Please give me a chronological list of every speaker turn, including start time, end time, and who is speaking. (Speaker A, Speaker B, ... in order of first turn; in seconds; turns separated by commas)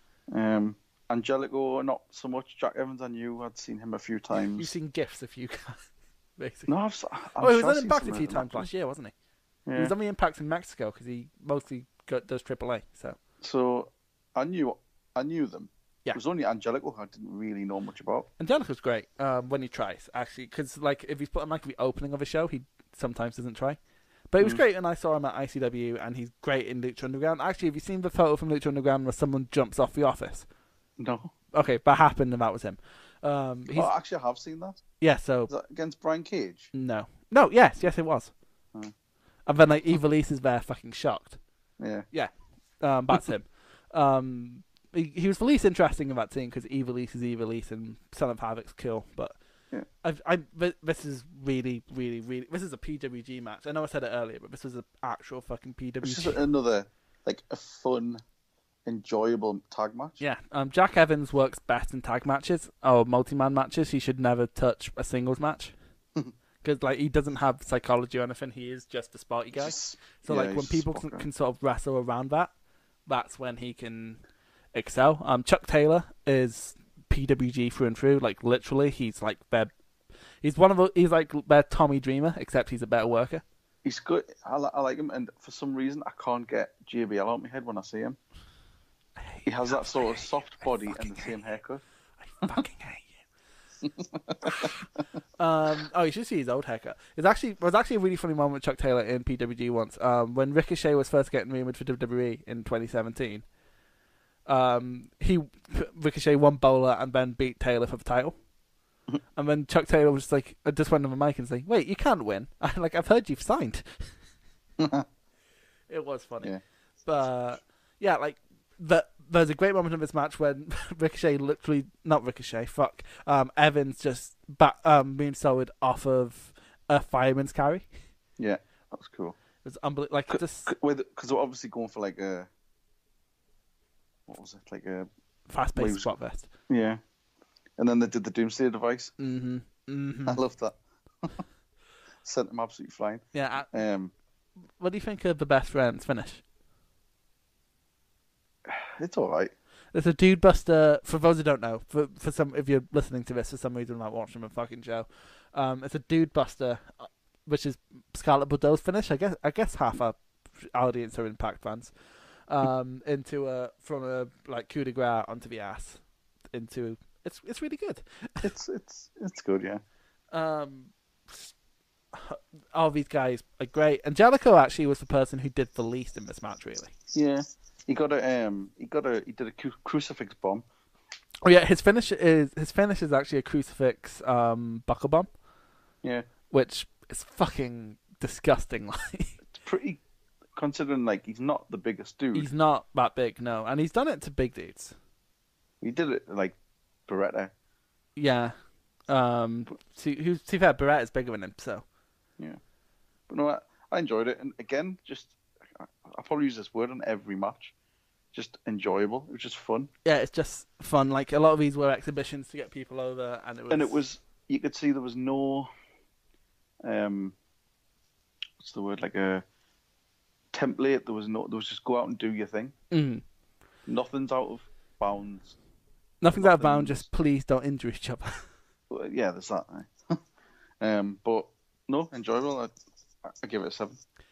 Speaker A: 0.3-4.7, Speaker B: 4.4-5.8, Speaker B: 6.4-6.7, Speaker A: 6.7-8.7, Speaker B: 7.4-9.1, Speaker A: 9.7-9.9, Speaker B: 9.8-13.2, Speaker A: 13.4-18.3, Speaker B: 18.4-23.8, Speaker B: 24.3-30.5, Speaker A: 31.0-31.3, Speaker B: 31.5-33.9, Speaker A: 33.7-34.8, Speaker B: 35.0-35.5, Speaker A: 35.5-36.7, Speaker B: 36.7-38.3, Speaker B: 39.5-41.4, Speaker A: 41.8-42.1, Speaker B: 42.1-49.4, Speaker B: 50.0-56.4, Speaker A: 56.0-58.2, Speaker A: 58.9-60.2, Speaker B: 60.2-65.7, Speaker B: 66.6-72.5, Speaker A: 69.5-71.3, Speaker B: 73.1-74.2, Speaker B: 74.7-79.7, Speaker B: 80.4-83.4, Speaker A: 83.8-88.2, Speaker B: 89.2-91.4, Speaker A: 89.5-91.8, Speaker B: 92.2-93.2, Speaker A: 93.8-94.7, Speaker B: 94.5-94.8, Speaker B: 95.4-103.4, Speaker B: 104.5-108.4, Speaker B: 109.4-114.1, Speaker A: 114.8-115.1, Speaker B: 115.9-116.5, Speaker B: 117.1-127.9, Speaker A: 128.4-129.4, Speaker B: 129.6-130.7, Speaker A: 130.3-132.5, Speaker A: 134.3-135.1, Speaker B: 135.5-136.5, Speaker A: 135.8-136.1, Speaker A: 136.7-137.0, Speaker A: 137.8-139.1, Speaker B: 139.2-140.4, Speaker A: 140.3-141.4, Speaker A: 142.2-144.1, Speaker B: 143.3-143.7, Speaker B: 144.8-146.4, Speaker A: 148.7-149.5, Speaker B: 149.9-161.9, Speaker B: 162.5-166.0, Speaker B: 166.5-168.5, Speaker A: 168.4-169.8, Speaker B: 170.3-171.5, Speaker B: 172.1-176.9, Speaker A: 177.1-180.7, Speaker B: 181.4-185.3, Speaker A: 186.0-186.3, Speaker B: 186.5-189.3, Speaker A: 189.6-190.0, Speaker A: 190.6-192.5, Speaker B: 192.3-194.9, Speaker A: 195.8-196.6, Speaker A: 197.1-197.5, Speaker B: 198.2-198.6, Speaker B: 199.1-201.8, Speaker A: 203.3-207.7, Speaker A: 208.3-209.9, Speaker B: 210.1-214.0, Speaker A: 213.7-215.7, Speaker A: 216.8-217.3, Speaker A: 218.6-219.4, Speaker A: 220.5-222.7, Speaker B: 222.9-223.2, Speaker A: 223.9-225.6, Speaker B: 226.2-228.4, Speaker A: 226.4-227.1, Speaker A: 228.9-230.2, Speaker A: 230.8-232.7, Speaker A: 233.2-234.0